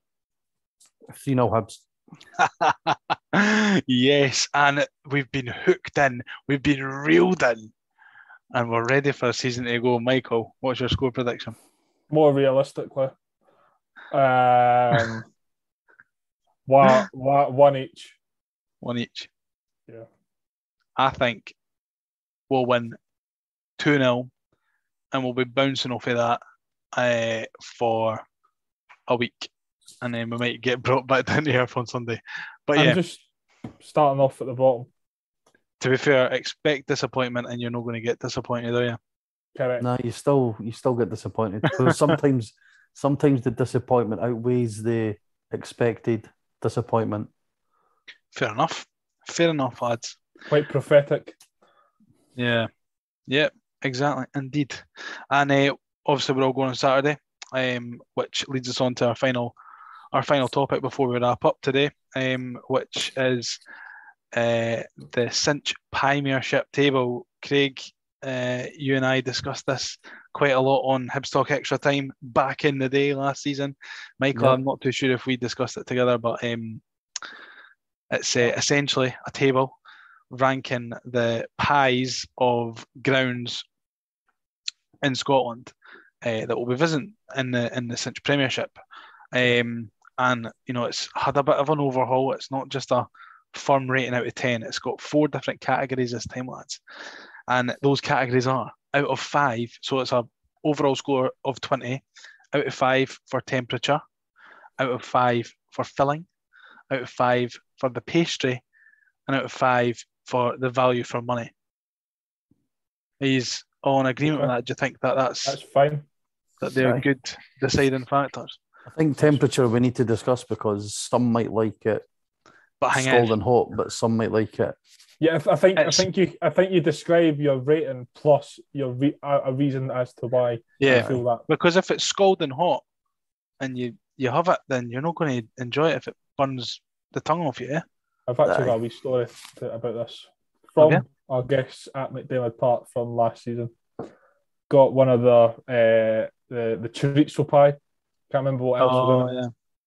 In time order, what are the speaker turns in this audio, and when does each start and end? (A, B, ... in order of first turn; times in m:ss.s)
0:01.1-0:01.8 A
0:02.4-0:07.7 B
0:08.5-0:11.6 B
0:12.1-0:13.1 C
0:14.1-0:15.2 C
0:16.6-0:18.2 C
0:18.8-0:19.3 B
0:21.0-0:21.5 B
0:22.5-0:23.0 B
0:23.8-0:24.3 B
0:25.1-0:26.4 B
0:26.9-0:28.2 B
0:29.1-0:29.5 B
0:30.0-0:33.0 B
0:32.8-0:33.3 C
0:33.8-0:34.9 C
0:35.8-0:39.0 B
0:39.6-0:39.9 C
0:39.8-0:47.3 A
0:41.7-0:42.1 B
0:48.3-0:50.2 B
0:50.5-0:51.4 C
0:52.4-0:52.7 B
0:53.3-0:59.5 B
1:00.1-1:03.6 B
1:04.3-1:16.8 B
1:18.1-1:19.8 B
1:20.3-1:23.6 B
1:25.0-1:28.8 B
1:29.3-1:36.8 B
1:37.5-1:42.0 B
1:42.5-1:44.0 B
1:44.8-1:46.2 B
1:46.9-1:48.6 B
1:49.3-1:51.5 B
1:53.2-1:55.6 B
1:54.3-1:54.5 C
1:55.4-1:56.0 C
1:56.6-1:58.6 B
1:56.8-1:57.0 A
1:58.9-2:02.0 A
2:02.8-2:03.3 B
2:02.9-2:04.8 A
2:05.2-2:11.4 C
2:05.8-2:06.0 B
2:10.8-2:12.8 B
2:13.6-2:17.8 B
2:18.3-2:23.7 C
2:18.4-2:18.8 A
2:24.7-2:27.8 C
2:28.3-2:29.4 C
2:28.8-2:29.5 B